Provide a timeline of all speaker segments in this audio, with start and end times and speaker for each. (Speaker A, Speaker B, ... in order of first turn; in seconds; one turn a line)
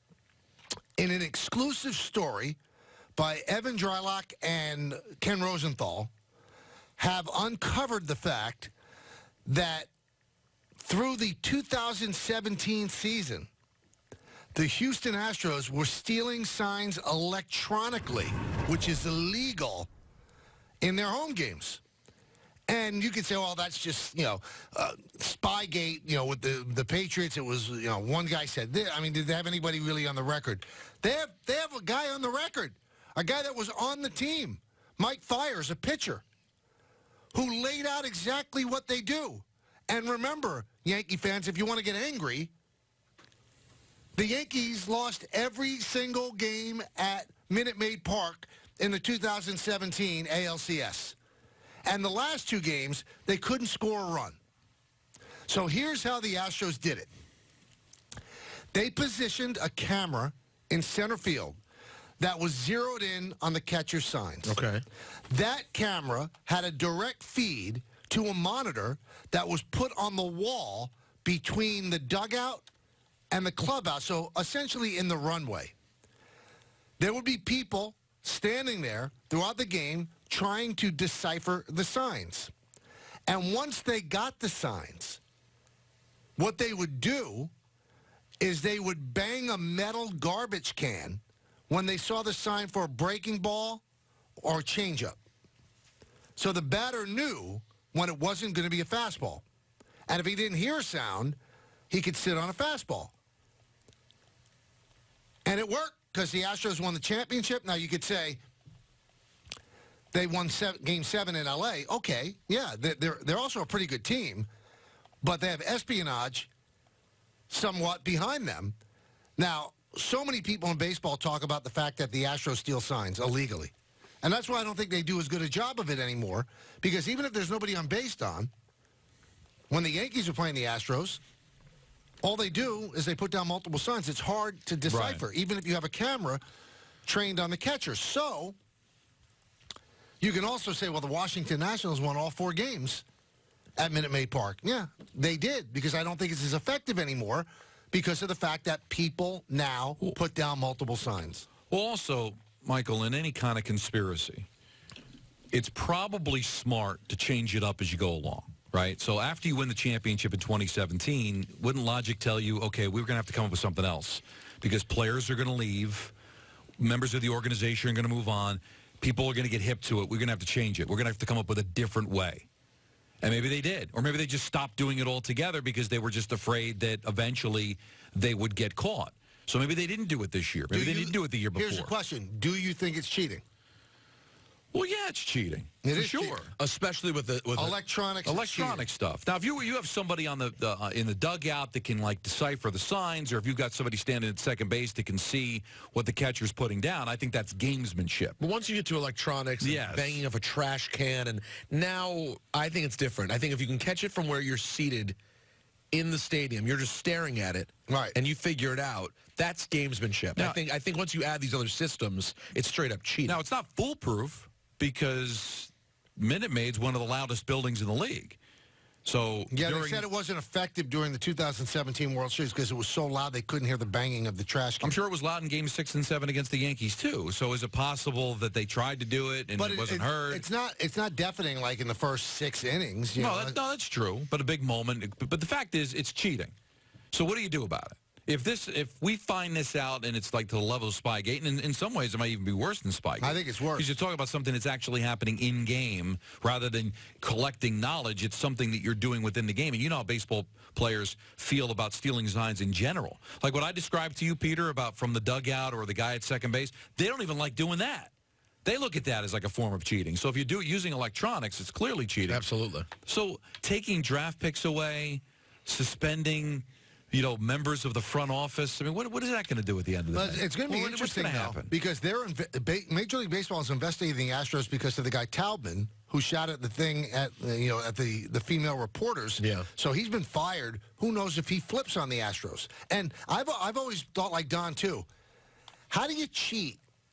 Speaker A: 1.0-2.6
Speaker A: 3.1-6.1
Speaker A: 7.0-8.7
Speaker A: 9.4-9.9
Speaker A: 10.8-13.5
Speaker A: 14.5-19.9
Speaker A: 20.8-21.8
Speaker A: 22.7-36.2
Speaker A: 37.3-42.5
Speaker A: 44.1-51.1
Speaker A: 51.8-54.4
Speaker A: 55.5-57.1
Speaker A: 58.7-61.6
Speaker A: 62.2-64.6
Speaker B: 64.4-64.8
Speaker A: 65.3-72.6
Speaker A: 73.3-75.7
Speaker A: 77.0-82.5
Speaker A: 83.3-85.2
Speaker A: 86.4-87.5
Speaker A: 88.4-93.8
Speaker A: 94.4-95.2
Speaker A: 96.4-99.4
Speaker A: 100.1-101.4
Speaker A: 101.9-103.1
Speaker A: 105.5-108.4
Speaker A: 110.1-114.5
Speaker A: 115.2-116.5
Speaker A: 117.5-118.7
Speaker A: 119.4-128.5
Speaker A: 129.7-131.2
Speaker A: 132.2-136.4
Speaker C: 134.9-135.2
Speaker A: 137.0-138.6
Speaker A: 140.2-143.0
Speaker A: 143.8-151.4
Speaker C: 151.7-154.5
Speaker C: 155.5-166.1
Speaker C: 166.8-172.4
Speaker C: 173.2-181.9
Speaker A: 180.7-183.4
Speaker C: 184.7-186.5
Speaker A: 185.8-186.4
Speaker B: 186.6-187.8
Speaker A: 187.6-188.8
Speaker C: 188.2-198.4
Speaker B: 198.4-205.2
Speaker C: 199.6-200.2
Speaker B: 205.9-213.4
Speaker A: 207.9-208.2
Speaker C: 213.2-218.4
Speaker C: 219.0-220.1
Speaker A: 219.5-225.0
Speaker C: 224.8-230.4
Speaker A: 229.6-233.6
Speaker C: 233.2-236.5
Speaker C: 237.1-258.1
Speaker A: 243.2-243.9
Speaker C: 258.6-262.4
Speaker B: 262.3-262.9
Speaker C: 263.1-271.7
Speaker A: 270.1-285.1
Speaker B: 279.4-279.6
Speaker A: 285.9-286.8